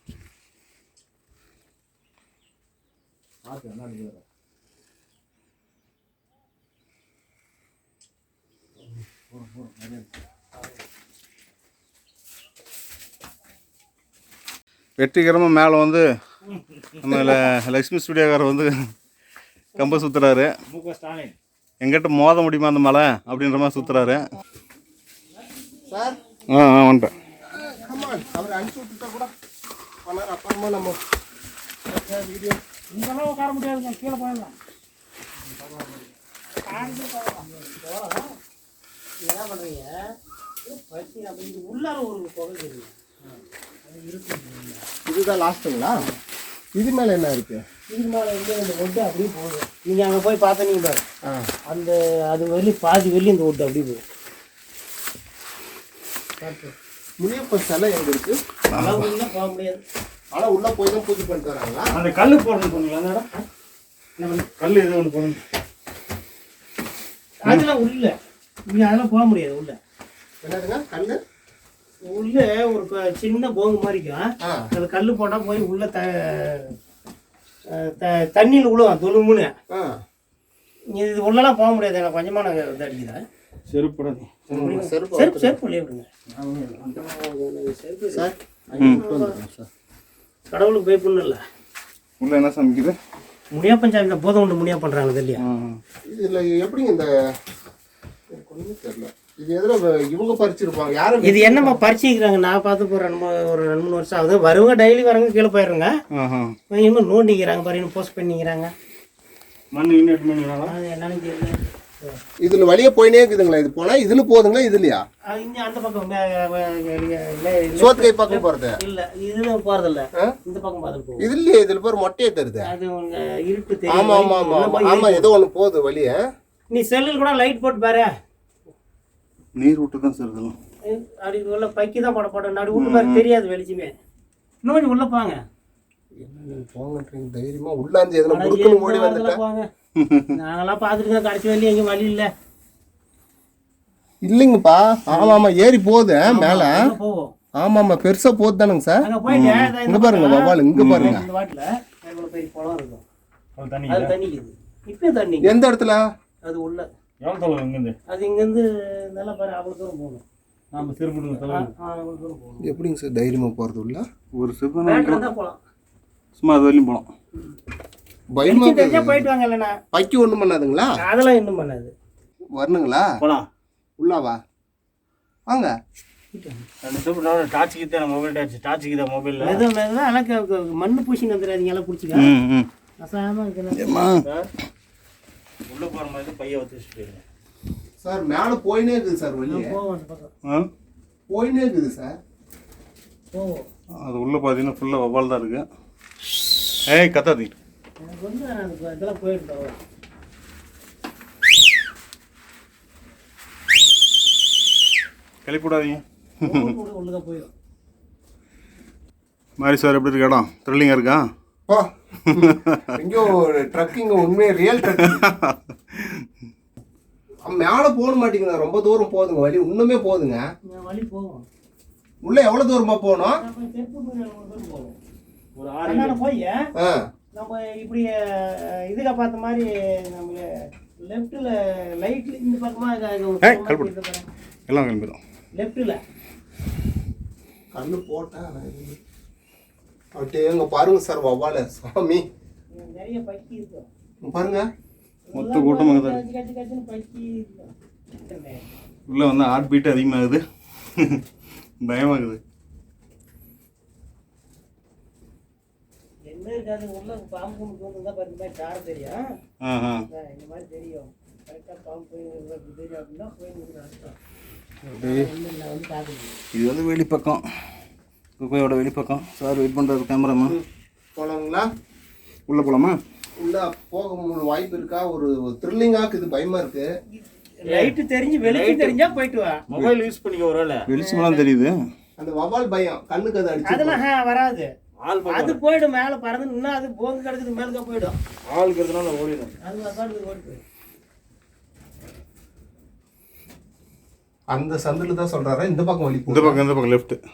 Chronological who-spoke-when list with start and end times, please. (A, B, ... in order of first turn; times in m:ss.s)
0:03.4-0:04.2 A
0:09.3-0:10.1 A
0:15.0-0:16.1 B
0:17.0-0:17.3 A
0:17.0-0:18.7 B
0:19.8-0:20.5 B
0:20.7-0:21.4 A
0:21.8-0:24.3 B
0:25.5-0:26.2 C
0:25.9-0:26.2 D
0:26.5-0:27.1 B
0:27.2-0:28.5 C
0:27.5-0:29.3 D
0:30.0-0:31.0 D
0:31.9-0:32.5 C
0:32.9-0:34.5 E
0:36.6-0:37.5 E
0:36.7-0:38.3 C
0:39.2-0:39.9 C
0:40.6-0:42.9 C
0:43.8-0:44.8 C
0:45.1-0:46.0 D
0:46.8-0:47.6 D
0:47.9-0:51.0 C
0:51.2-0:51.5 D
0:51.7-0:54.0 C
0:56.4-0:56.7 C
0:57.2-0:58.4 D
0:58.7-0:59.1 B
0:58.7-0:59.8 C
1:00.3-1:01.9 D
1:01.9-1:03.3 A
1:04.2-1:04.4 C
1:04.6-1:05.4 A
1:07.4-1:08.2 C
1:08.7-1:09.8 C
1:10.4-1:11.2 D
1:12.0-1:16.7 C
1:14.4-1:14.7 D
1:17.7-1:19.5 C
1:19.7-1:20.0 D
1:20.9-1:23.2 C
1:23.7-1:24.3 A
1:24.5-1:25.6 D
1:24.5-1:26.1 C
1:26.3-1:27.0 A
1:26.9-1:29.4 C
1:28.1-1:29.7 D
1:30.5-1:31.4 C
1:32.2-1:33.0 B
1:33.5-1:35.4 C
1:35.4-1:35.8 B
1:36.1-1:37.1 D
1:38.3-1:41.8 D
1:41.2-1:45.9 C
1:46.2-1:46.6 B
1:46.7-1:48.7 C
1:49.7-1:50.7 A
1:50.7-1:52.2 C
1:52.4-1:55.0 D
1:55.3-2:01.3 C
1:57.8-1:58.8 D
2:01.2-2:02.7 D
2:02.6-2:05.3 C
2:03.9-2:06.2 D
2:06.7-2:08.1 C
2:09.6-2:10.6 B
2:10.9-2:14.0 C
2:12.7-2:13.2 B
2:14.6-2:15.4 C
2:16.2-2:19.4 D
2:18.3-2:19.7 C
2:20.0-2:20.3 B
2:20.3-2:22.3 C
2:24.2-2:26.9 D
2:25.1-2:25.4 C
2:26.3-2:27.3 C
2:27.6-2:29.0 D
2:29.0-2:33.0 C
2:29.3-2:29.8 B
2:29.9-2:31.2 D
2:30.8-2:31.2 B
2:33.6-2:34.2 A
2:33.9-2:35.5 C
2:35.4-2:36.0 D
2:36.4-2:36.9 C
2:37.2-2:38.0 A
2:38.1-2:40.2 C
2:40.7-2:41.7 A
2:41.4-2:42.7 C
2:42.6-2:44.1 D
2:44.3-2:45.2 B
2:44.8-2:45.6 C
2:46.4-2:47.1 B
2:48.3-2:49.3 D
2:48.5-2:49.8 C
2:49.9-2:51.0 D
2:51.0-2:51.9 C
2:52.5-2:53.2 D
2:53.2-2:53.5 A
2:54.0-2:54.4 D
2:56.3-2:56.7 C
2:56.8-2:59.6 A
2:59.4-3:02.3 C
3:02.1-3:02.7 B
3:03.0-3:04.2 C
3:03.8-3:04.3 B
3:04.2-3:04.5 A
3:05.7-3:07.2 A
3:08.0-3:09.7 D
3:09.5-3:10.3 C
3:11.3-3:12.2 D
3:13.3-3:13.7 C
3:14.0-3:15.6 B
3:16.9-3:17.5 B
3:18.0-3:19.8 C
3:25.4-3:26.7 B
3:26.4-3:27.5 C
3:29.6-3:31.3 B
3:31.7-3:35.2 D
3:32.3-3:33.0 B
3:34.9-3:36.3 B
3:37.4-3:40.4 D
3:40.7-3:41.5 C
3:42.2-3:43.4 D
3:43.4-3:45.0 C
3:45.6-3:46.2 A
3:45.8-3:46.7 C
3:46.8-3:47.1 D
3:47.3-3:54.3 C
3:53.4-3:53.9 B
3:54.7-3:55.2 B
3:55.6-3:56.0 C
3:57.7-3:59.0 D
4:00.2-4:02.3 D
4:02.7-4:03.9 C
4:04.2-4:04.7 D
4:05.3-4:08.7 C
4:05.3-4:06.2 B
4:09.1-4:10.4 B
4:11.0-4:11.2 B
4:11.8-4:12.4 B
4:16.3-4:19.2 C
4:19.6-4:20.0 B
4:20.1-4:24.2 C
4:24.8-4:25.3 B
4:25.0-4:26.4 C
4:26.5-4:27.4 B
4:28.4-4:30.6 B
4:31.2-4:31.7 D
4:32.5-4:33.0 B
4:33.4-4:36.9 D
4:37.1-4:39.6 C
4:37.7-4:39.1 A
4:39.7-4:40.9 A
4:40.9-4:41.8 B
4:40.9-4:41.5 C
4:42.2-4:44.0 D
4:43.6-4:44.7 C
4:45.0-4:45.6 A
4:45.2-4:48.2 C
4:48.5-4:49.6 A
4:49.6-4:50.6 C
4:54.5-4:56.6 D
4:56.3-4:57.2 B